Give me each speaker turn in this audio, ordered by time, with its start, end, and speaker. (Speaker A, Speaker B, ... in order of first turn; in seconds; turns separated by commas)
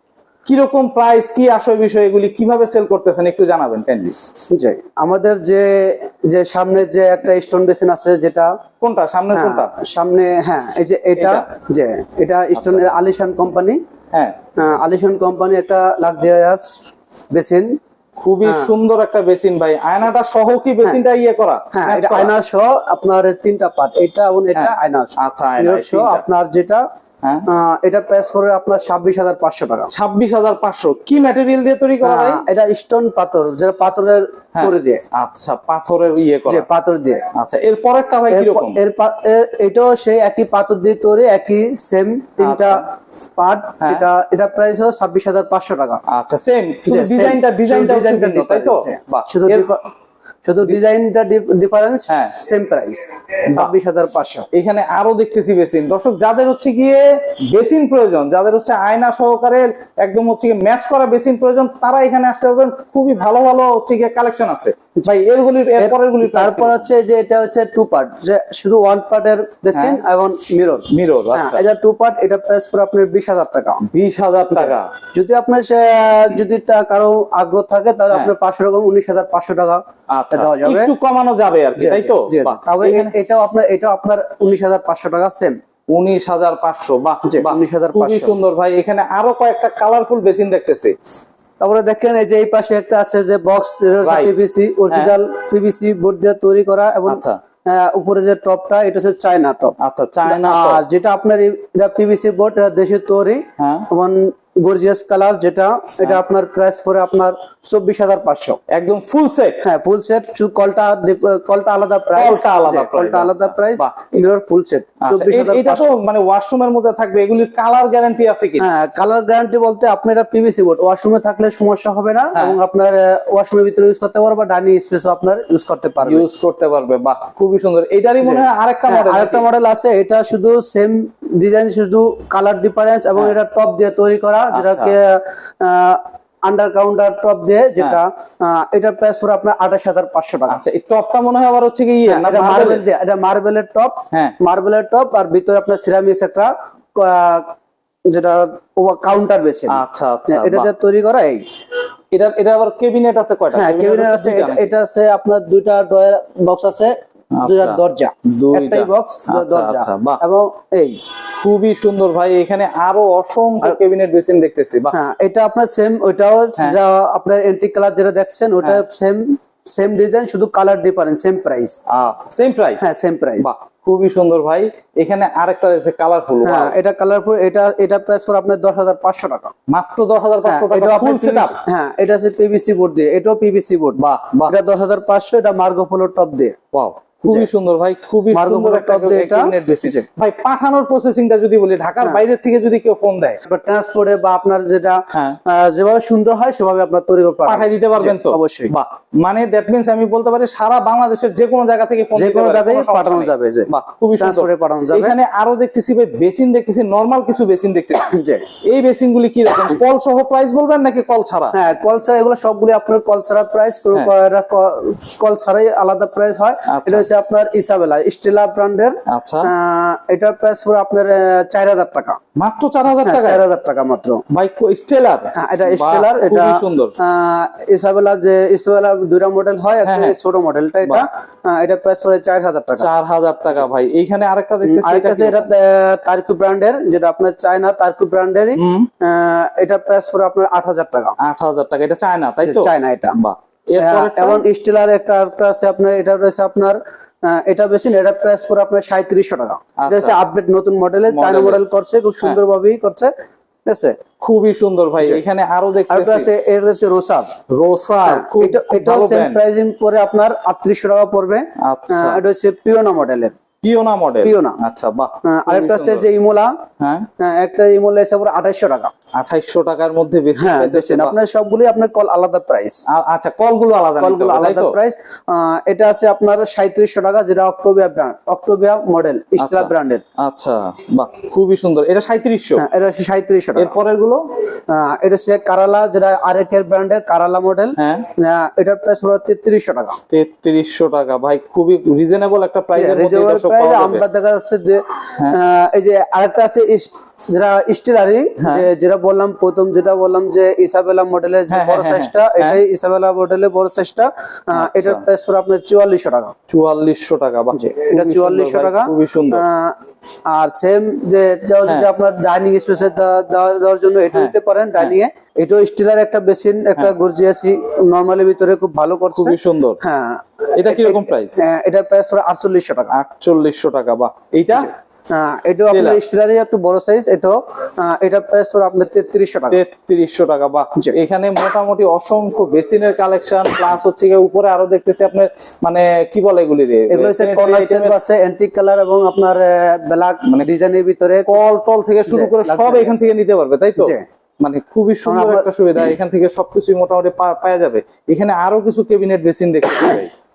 Speaker A: 0.5-4.2, Speaker B: 4.5-8.6, Speaker A: 8.8-9.7, Speaker B: 9.3-13.8, Speaker A: 11.2-11.5, Speaker A: 12.5-12.8, Speaker B: 14.6-17.8, Speaker A: 18.2-22.3, Speaker B: 18.4-18.7, Speaker B: 21.7-26.8, Speaker A: 24.5-26.2, Speaker B: 27.5-29.9, Speaker A: 29.9-32.4, Speaker B: 32.0-35.0, Speaker A: 34.5-36.6, Speaker B: 36.5-37.2, Speaker A: 37.3-38.8, Speaker B: 38.3-42.8, Speaker A: 42.4-42.8, Speaker B: 43.4-46.0, Speaker A: 43.8-44.0, Speaker A: 46.1-49.7, Speaker B: 46.9-49.9, Speaker B: 50.4-54.5, Speaker A: 54.5-66.8, Speaker B: 65.8-73.8, Speaker A: 69.7-70.0, Speaker A: 70.9-71.6, Speaker A: 73.9-74.9, Speaker B: 74.5-80.9, Speaker A: 80.1-83.1, Speaker B: 81.8-85.6, Speaker A: 85.9-91.0, Speaker B: 87.2-88.3, Speaker B: 91.6-108.6, Speaker A: 94.0-94.3, Speaker A: 94.9-95.2, Speaker A: 97.1-97.4, Speaker A: 99.8-100.8, Speaker A: 103.6-103.9, Speaker A: 108.7-109.6, Speaker B: 109.6-116.0, Speaker A: 112.1-114.2, Speaker A: 115.0-118.7, Speaker B: 118.6-126.2, Speaker A: 122.3-122.6, Speaker A: 126.0-129.4, Speaker B: 128.2-140.6, Speaker A: 134.5-134.9, Speaker A: 140.5-142.8, Speaker B: 142.1-147.5, Speaker B: 148.1-151.4, Speaker A: 149.7-150.7, Speaker A: 152.1-154.7, Speaker B: 153.5-161.0, Speaker A: 157.3-160.2, Speaker A: 161.4-164.9, Speaker B: 164.9-171.8, Speaker A: 171.9-172.8, Speaker B: 172.8-173.5, Speaker A: 173.4-176.8, Speaker B: 176.4-179.5, Speaker A: 179.7-181.6, Speaker B: 180.4-186.6, Speaker A: 183.9-184.5, Speaker A: 186.7-193.4, Speaker B: 188.3-190.0, Speaker B: 193.4-198.7, Speaker A: 195.1-195.4, Speaker A: 197.4-211.5, Speaker B: 202.1-205.1, Speaker B: 207.9-208.4, Speaker B: 211.5-222.2, Speaker A: 216.7-217.1, Speaker A: 219.1-219.5, Speaker A: 222.3-223.4, Speaker B: 223.0-224.2, Speaker A: 224.3-226.9, Speaker B: 225.3-232.9, Speaker A: 229.8-230.2, Speaker A: 232.8-235.5, Speaker B: 234.6-241.1, Speaker A: 238.6-238.9, Speaker A: 241.2-244.4, Speaker B: 242.4-243.2, Speaker B: 243.8-253.1, Speaker A: 249.8-250.2, Speaker A: 251.1-251.6, Speaker B: 253.6-254.0, Speaker A: 254.2-256.3, Speaker B: 255.9-257.4, Speaker A: 257.5-259.4, Speaker B: 258.0-263.4, Speaker A: 261.6-262.2, Speaker A: 263.6-266.1, Speaker B: 264.2-264.6, Speaker B: 265.2-266.5, Speaker A: 266.8-267.1, Speaker B: 267.2-268.9, Speaker A: 269.1-271.2, Speaker B: 270.4-272.8, Speaker A: 272.9-274.7, Speaker B: 274.0-280.0, Speaker A: 279.4-282.6, Speaker B: 282.6-283.8, Speaker A: 283.6-284.2, Speaker B: 284.7-290.0, Speaker A: 287.8-288.1, Speaker A: 290.1-294.0, Speaker B: 292.7-306.3, Speaker A: 298.4-298.7, Speaker A: 301.5-302.6, Speaker A: 304.5-305.0, Speaker A: 306.5-309.4, Speaker B: 307.5-322.9, Speaker A: 314.1-314.9, Speaker A: 319.1-319.8, Speaker A: 320.5-321.4, Speaker A: 322.9-324.7, Speaker B: 325.1-329.6, Speaker A: 325.6-326.0, Speaker A: 329.5-338.0, Speaker B: 336.9-341.4, Speaker A: 341.3-350.1, Speaker B: 342.1-343.0, Speaker B: 343.8-344.0, Speaker B: 345.1-345.5